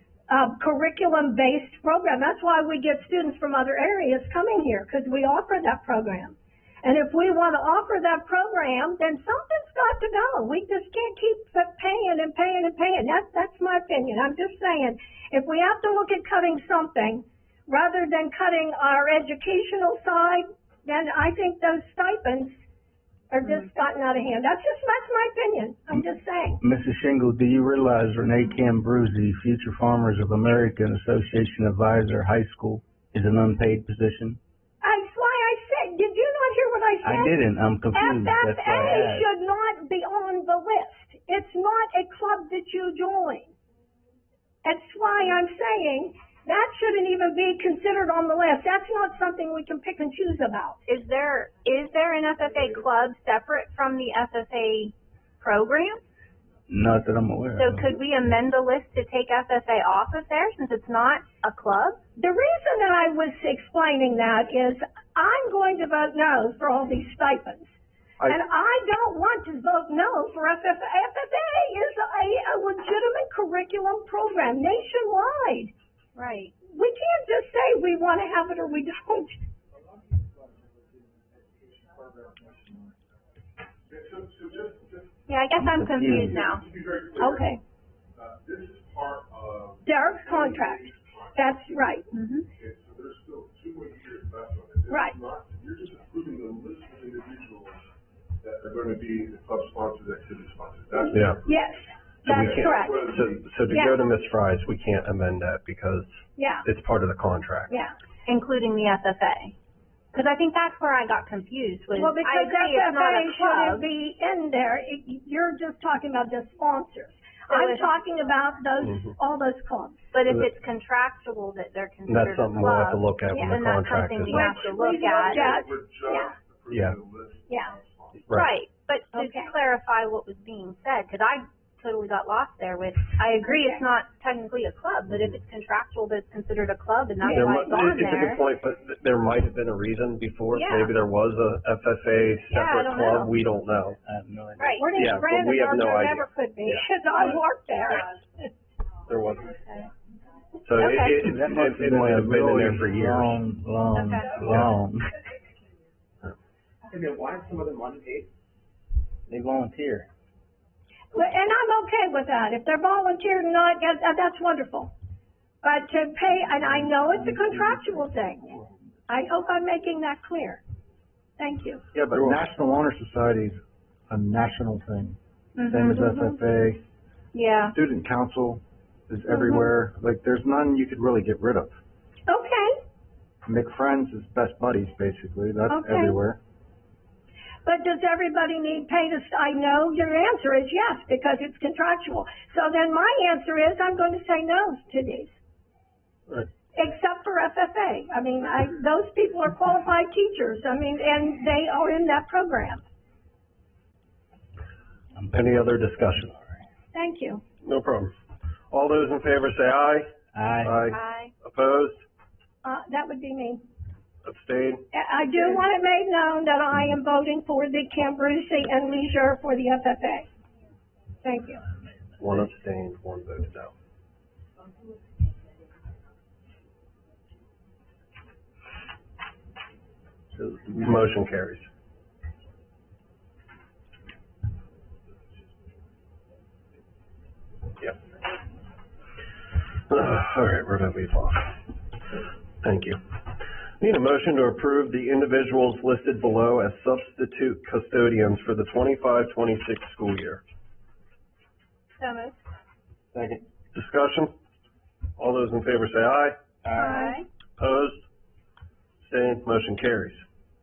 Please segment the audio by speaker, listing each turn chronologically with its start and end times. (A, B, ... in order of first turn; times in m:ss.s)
0:00.3-0:22.6 A
0:23.3-0:26.6 A
0:26.6-0:34.4 B
0:34.8-0:37.4 A
0:37.0-0:39.3 B
0:37.9-0:43.6 A
0:44.6-0:50.8 A
0:50.9-0:56.0 C
0:56.7-0:57.9 B
0:57.6-1:02.0 C
1:02.2-1:15.7 A
1:16.2-1:16.6 C
1:16.7-1:19.4 A
1:21.9-1:22.7 D
1:23.9-1:25.2 E
1:25.3-1:26.7 C
1:25.6-1:26.4 B
1:26.1-1:27.5 E
1:27.2-1:27.6 A
1:28.2-1:31.5 E
1:29.9-1:32.1 A
1:32.1-1:32.5 C
1:32.6-1:41.4 E
1:34.9-1:35.2 A
1:41.0-1:43.1 A
1:41.1-1:41.4 F
1:42.2-1:47.7 F
1:42.3-1:43.4 E
1:43.7-1:44.0 A
1:46.4-1:46.7 A
1:47.7-1:48.0 A
1:48.3-1:49.6 C
1:50.1-1:53.9 C
1:51.9-2:00.1 A
1:57.5-1:57.9 C
2:00.1-2:05.6 C
2:02.1-2:04.5 F
2:03.3-2:03.6 A
2:04.3-2:06.3 A
2:04.5-2:08.5 E
2:06.7-2:07.0 F
2:07.5-2:07.7 A
2:08.3-2:18.4 C
2:09.1-2:09.5 A
2:13.5-2:13.8 A
2:17.2-2:18.3 A
2:17.3-2:24.0 F
2:20.5-2:20.9 C
2:22.5-2:23.4 C
2:24.0-2:25.1 B
2:24.6-2:24.9 C
2:24.8-2:28.5 A
2:25.0-2:26.8 F
2:29.1-2:29.6 F
2:29.6-2:29.9 C
2:30.6-2:33.4 F
2:30.8-2:31.2 C
2:31.2-2:35.1 B
2:33.9-2:34.5 C
2:37.0-2:38.2 D
2:39.3-2:40.1 B
2:41.1-2:44.9 A
2:45.6-2:50.6 A
2:51.4-2:51.8 A
2:51.9-2:56.8 G
2:55.6-2:56.4 C
2:57.3-2:57.8 C
2:57.7-3:01.8 G
2:59.3-2:59.7 C
3:02.3-3:02.8 A
3:03.4-3:06.4 G
3:05.7-3:06.2 A
3:07.6-3:15.4 A
3:16.8-3:22.8 A
3:25.2-3:25.5 B
3:25.3-3:26.4 F
3:26.9-3:27.4 A
3:27.6-3:28.1 F
3:28.7-3:30.1 F
3:30.3-3:30.8 B
3:30.6-3:32.0 F
3:30.9-3:31.3 C
3:32.6-3:33.6 A
3:34.2-3:34.9 F
3:34.9-3:40.3 A
3:41.2-3:41.6 A
3:42.2-3:43.7 F
3:50.4-3:51.7 F
3:59.9-4:01.6 F
4:02.6-4:03.0 F
4:03.8-4:10.4 F
4:12.0-4:12.4 C
4:13.7-4:14.3 F
4:15.2-4:16.4 F
4:16.7-4:17.3 C
4:16.8-4:17.2 G
4:17.6-4:18.0 F
4:19.0-4:20.2 F